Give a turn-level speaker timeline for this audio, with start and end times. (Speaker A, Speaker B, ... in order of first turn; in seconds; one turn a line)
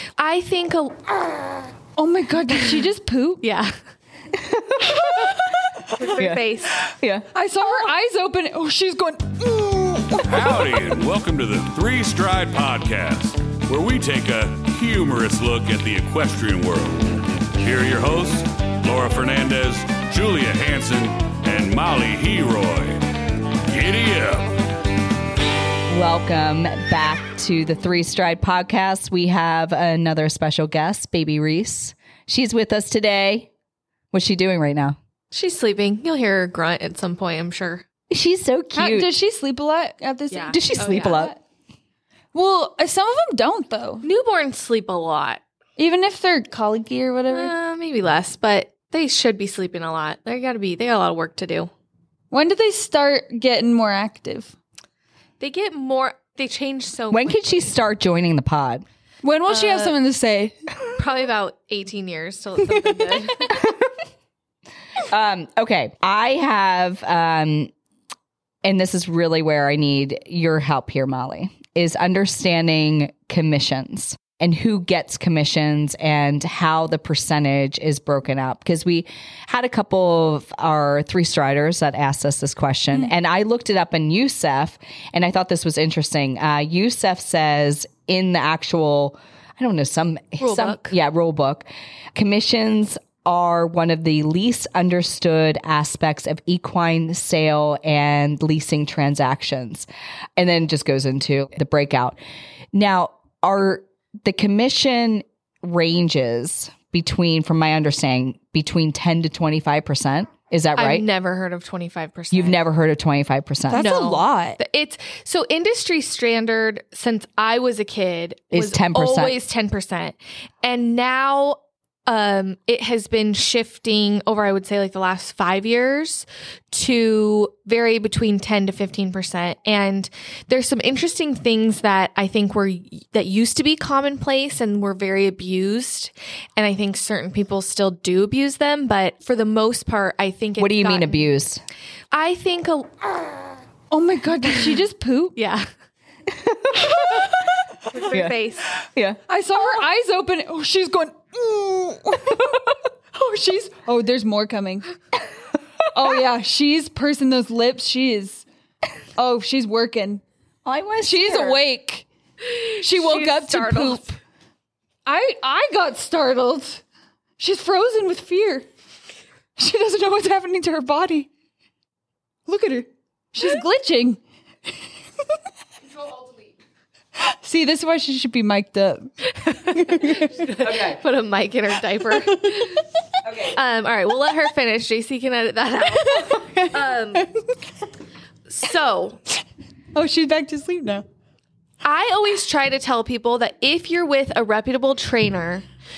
Speaker A: 0.2-1.6
Speaker B: 2.0-3.4
Speaker A: 3.4-3.7
Speaker C: 4.4-5.3
Speaker A: 6.0-6.8
Speaker C: 6.1-7.3
Speaker B: 7.3-10.6
Speaker D: 10.3-23.0
Speaker D: 23.7-24.5
Speaker C: 25.9-33.5
Speaker C: 34.1-35.0
Speaker A: 35.3-37.9
Speaker C: 38.1-39.1
Speaker B: 38.7-41.3
Speaker A: 40.3-41.3
Speaker C: 40.5-41.4
Speaker B: 42.3-44.0
Speaker A: 44.0-45.4
Speaker B: 45.8-47.5
Speaker A: 47.3-51.7
Speaker B: 52.3-54.5
Speaker A: 55.4-57.8
Speaker C: 57.1-58.9
Speaker B: 59.2-60.7
Speaker A: 59.5-60.0
Speaker A: 61.0-63.6
Speaker C: 65.1-67.7
Speaker C: 68.6-102.2
Speaker A: 90.4-90.9
Speaker C: 102.7-111.1
Speaker A: 110.8-112.6
Speaker C: 112.3-113.9
Speaker B: 113.7-114.6
Speaker A: 113.7-141.3
Speaker C: 118.5-119.4
Speaker C: 140.6-141.6
Speaker A: 142.1-143.4
Speaker B: 143.9-145.3
Speaker A: 145.4-145.7
Speaker C: 146.3-147.3
Speaker A: 147.9-148.7
Speaker C: 148.1-148.3
Speaker B: 149.3-154.9
Speaker B: 155.9-158.4
Speaker B: 159.2-160.2
Speaker C: 160.7-161.6
Speaker B: 161.0-162.1
Speaker B: 162.6-164.1
Speaker A: 162.8-164.1
Speaker B: 165.1-166.8
Speaker B: 167.4-168.7
Speaker B: 169.6-171.3
Speaker B: 172.5-174.2
Speaker B: 177.4-180.4
Speaker A: 179.4-182.8
Speaker C: 180.6-181.0
Speaker C: 183.2-183.6
Speaker A: 183.5-187.3
Speaker B: 186.1-187.3
Speaker A: 188.5-189.2
Speaker B: 189.9-191.1
Speaker A: 191.8-195.7